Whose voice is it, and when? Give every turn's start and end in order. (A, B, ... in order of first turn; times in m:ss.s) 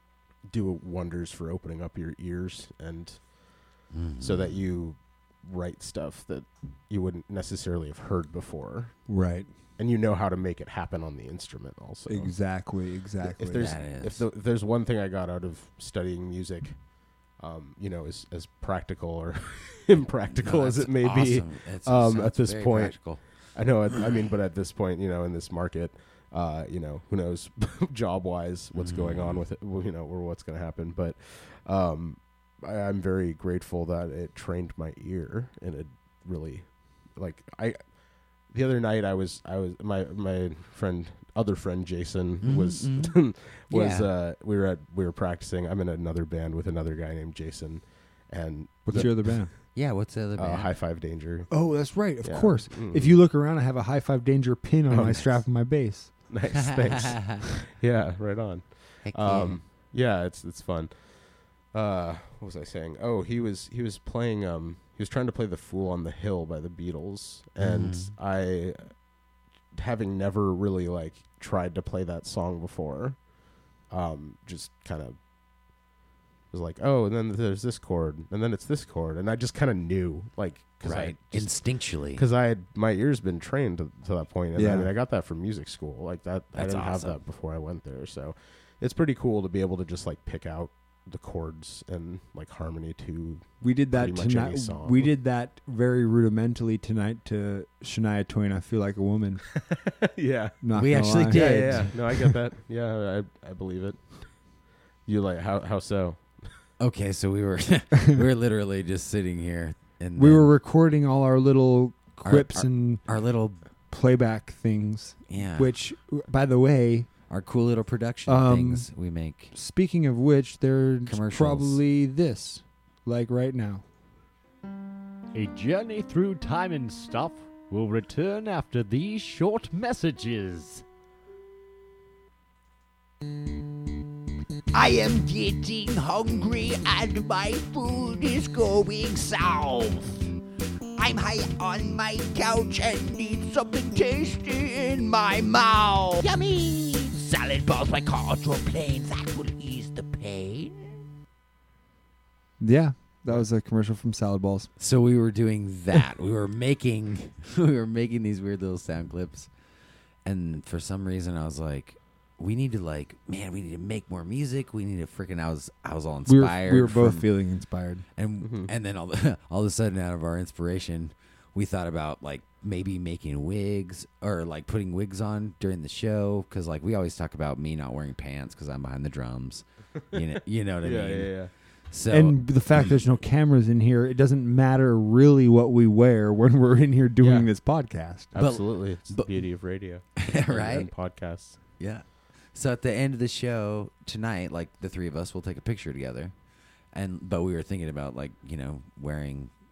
0:00.5-0:09.0 A
0:03.9-0:04.6 B
0:09.1-0:09.5 C
0:09.8-0:49.7 A
0:12.1-0:13.7 C
0:13.6-0:14.3 B
0:20.3-0:23.2 B
0:28.8-0:29.4 B
0:42.4-0:44.1 B
0:48.9-0:49.5 C
0:49.7-0:50.7 B
0:50.4-0:53.2 A
0:51.5-0:56.2 C
0:54.9-0:55.5 A
0:56.3-1:09.0 A
0:56.8-0:57.4 B
0:59.0-0:59.6 B
1:07.6-1:08.1 B
1:09.7-1:13.3 A
1:13.9-1:15.2 A
1:16.5-1:35.1 A
1:20.8-1:22.2 B
1:24.6-1:24.9 C
1:26.6-1:27.2 B
1:33.6-1:39.5 C
1:39.6-1:44.5 A
1:40.6-1:42.0 C
1:40.7-1:42.0 B
1:45.0-1:46.5 A
1:46.8-1:50.6 B
1:50.2-1:53.1 C
1:52.2-1:53.6 B
1:53.9-1:57.1 C
1:55.3-1:55.7 B
1:57.3-1:59.5 B
1:58.3-1:58.9 C
1:59.5-2:03.8 C
2:01.1-2:01.8 B
2:05.3-2:10.8 D
2:14.7-2:20.2 E
2:21.0-2:31.0 E
2:32.6-2:34.7 C
2:34.8-2:39.5 B
2:40.2-2:47.3 B
2:46.3-2:48.1 C
2:48.2-3:02.5 B
2:48.4-2:48.7 A
3:00.8-3:01.5 A
3:02.1-3:08.3 C
3:07.2-3:11.6 A
3:08.4-3:09.6 B
3:10.2-3:10.9 B
3:11.8-3:16.4 B
3:16.9-3:19.5 B